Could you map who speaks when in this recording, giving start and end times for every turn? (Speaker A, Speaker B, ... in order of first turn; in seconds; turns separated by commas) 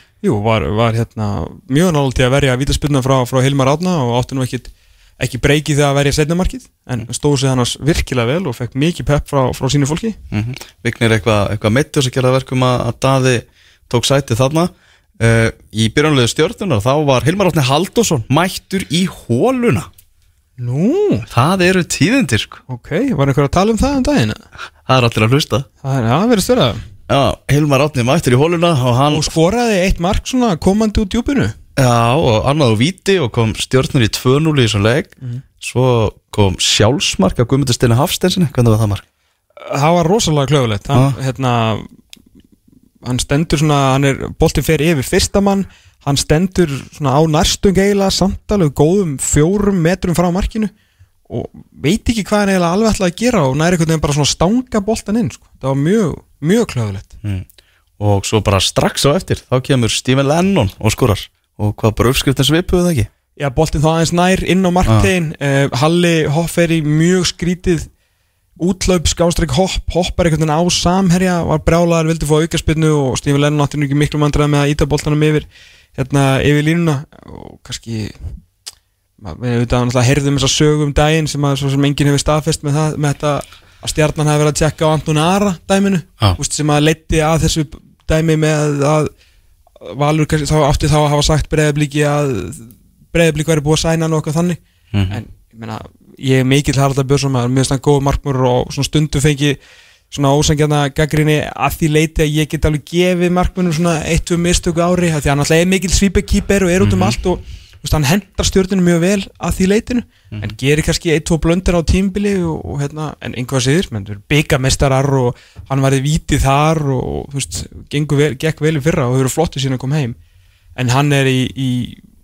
Speaker A: 0.2-10.2, Speaker B: 10.3-19.9, Speaker A: 20.6-21.3, Speaker B: 21.3-22.6, Speaker A: 22.7-24.4, Speaker B: 24.9-25.7, Speaker A: 25.8-26.8, Speaker B: 27.1-29.3, Speaker A: 29.1-31.6, Speaker B: 31.8-39.0, Speaker A: 39.6-41.9, Speaker A: 43.0-50.7, Speaker A: 51.3-57.1, Speaker B: 58.0-63.1, Speaker A: 63.4-67.9, Speaker A: 68.6-78.3, Speaker A: 79.2-89.1, Speaker A: 89.8-99.6, Speaker B: 94.9-95.2, Speaker A: 100.1-120.2, Speaker B: 106.8-107.2, Speaker A: 120.8-122.0